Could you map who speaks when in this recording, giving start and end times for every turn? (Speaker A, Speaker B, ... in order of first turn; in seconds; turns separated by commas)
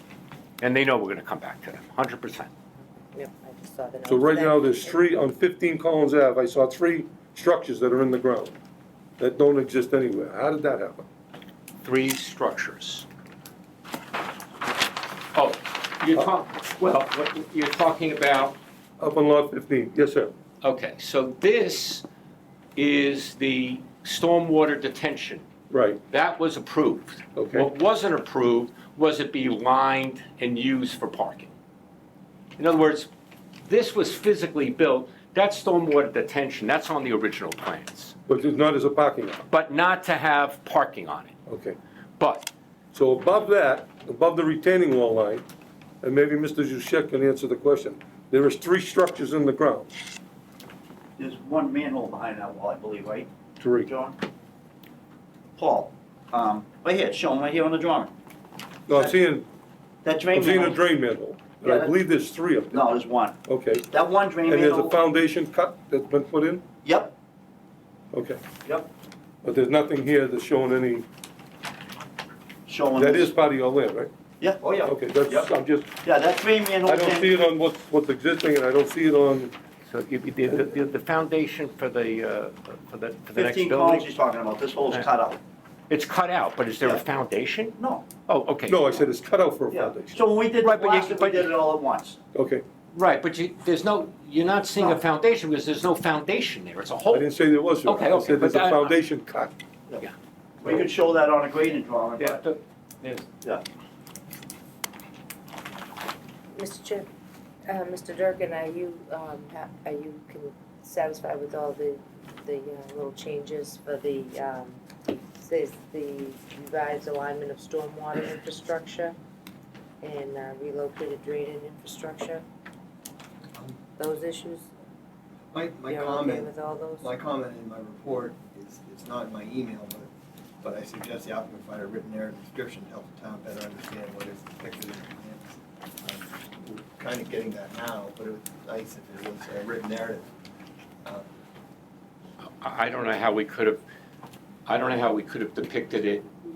Speaker A: 0.6-2.5, Speaker B: 3.1-5.0, Speaker C: 4.1-8.6, Speaker C: 9.2-11.1, Speaker A: 11.8-13.1, Speaker A: 15.3-18.6, Speaker C: 19.0-20.3, Speaker A: 20.6-22.0, Speaker A: 22.8-25.4, Speaker C: 25.7-26.0, Speaker A: 26.1-31.5, Speaker C: 27.4-27.7, Speaker A: 32.6-33.1, Speaker A: 33.6-38.1, Speaker C: 38.3-39.4, Speaker A: 39.5-41.3, Speaker C: 41.5-41.8, Speaker A: 42.2-42.5, Speaker C: 42.9-45.5, Speaker C: 46.0-49.9, Speaker D: 51.2-53.3, Speaker C: 53.6-53.9, Speaker D: 53.8-54.2, Speaker D: 55.6-58.1, Speaker C: 58.9-59.5, Speaker D: 60.0-60.8, Speaker C: 60.3-62.8, Speaker D: 61.6-61.9, Speaker D: 62.7-63.4, Speaker C: 63.5-63.9, Speaker D: 63.9-64.9, Speaker C: 64.5-66.6, Speaker D: 66.8-67.1, Speaker C: 68.1-68.4, Speaker C: 69.4-71.1, Speaker D: 72.7-73.3, Speaker C: 73.0-74.1, Speaker D: 74.4-75.5, Speaker C: 74.8-75.9, Speaker D: 76.0-77.3, Speaker C: 76.8-79.5, Speaker A: 79.9-84.1, Speaker D: 83.3-85.4, Speaker A: 85.9-89.0, Speaker D: 87.8-88.1, Speaker C: 88.7-90.2, Speaker D: 89.7-92.2, Speaker A: 90.6-91.5, Speaker C: 92.3-92.7, Speaker A: 92.9-99.0, Speaker C: 97.1-99.5, Speaker D: 100.6-102.4, Speaker A: 102.2-103.3, Speaker B: 106.5-107.1, Speaker B: 107.7-119.2, Speaker B: 120.0-122.4, Speaker B: 124.0-124.7, Speaker E: 125.5-130.1, Speaker B: 125.9-127.2, Speaker E: 130.6-140.3, Speaker A: 142.6-143.8, Speaker A: 144.7-146.3